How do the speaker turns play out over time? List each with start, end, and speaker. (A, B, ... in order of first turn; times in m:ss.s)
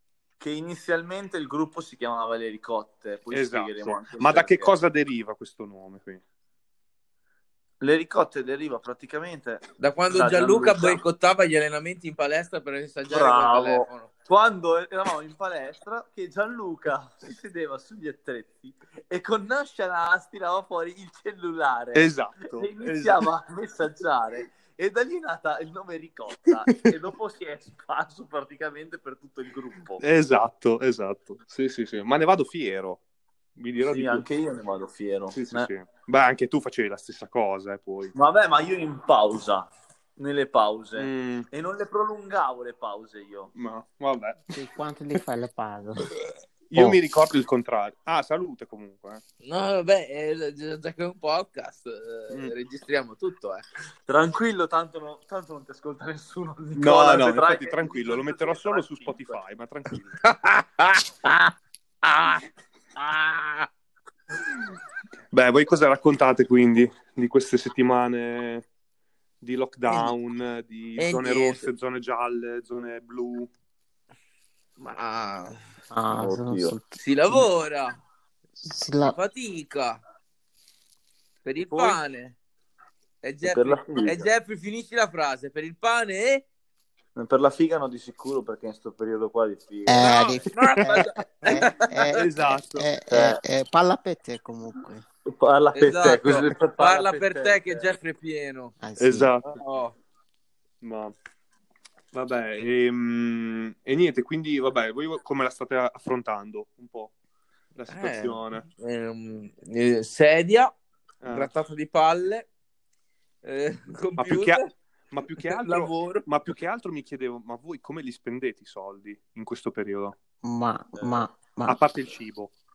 0:00.4-0:04.7 A
0:03.3-0:06.2 B
0:07.8-0:11.0 A
0:09.8-0:14.1 C
0:13.1-0:30.0 A
0:21.9-0:23.3 B
0:30.0-0:33.0 B
0:33.6-0:34.2 B
0:33.8-0:35.7 A
0:35.3-0:38.1 B
0:38.1-0:43.5 A
0:41.0-0:41.5 B
0:43.5-0:44.6 B
0:44.5-0:46.1 D
0:46.7-0:49.2 B
0:46.7-0:47.0 D
0:49.4-0:53.6 C
0:54.0-0:59.4 A
0:56.8-1:00.2 B
1:00.2-1:01.5 C
1:02.0-1:02.4 C
1:03.0-1:03.7 C
1:05.3-1:08.6 B
1:09.4-1:13.5 B
1:09.9-1:10.1 C
1:11.0-1:11.7 C
1:14.8-1:15.6 C
1:15.9-1:17.5 D
1:16.2-1:16.8 A
1:17.0-1:18.0 C
1:18.6-1:19.2 D
1:19.1-1:20.0 C
1:21.4-1:22.4 C
1:21.7-1:22.0 A
1:23.2-1:26.4 C
1:23.4-1:24.3 A
1:27.2-1:30.4 A
1:29.9-1:35.0 D
1:30.0-1:32.1 C
1:32.2-1:32.9 B
1:33.1-1:33.4 A
1:35.2-1:37.9 A
1:35.7-1:38.7 C
1:38.8-1:39.3 D
1:39.0-1:39.6 B
1:39.4-1:40.0 C
1:40.8-1:41.1 B
1:42.1-1:47.1 B
1:47.8-1:48.7 B
1:47.9-1:50.7 C
1:51.2-1:51.5 B
1:51.3-1:52.5 C
1:53.4-1:54.7 C
1:54.2-2:00.1 B
1:55.4-1:56.2 C
2:00.4-2:01.8 D
2:01.0-2:01.3 A
2:01.6-2:02.5 B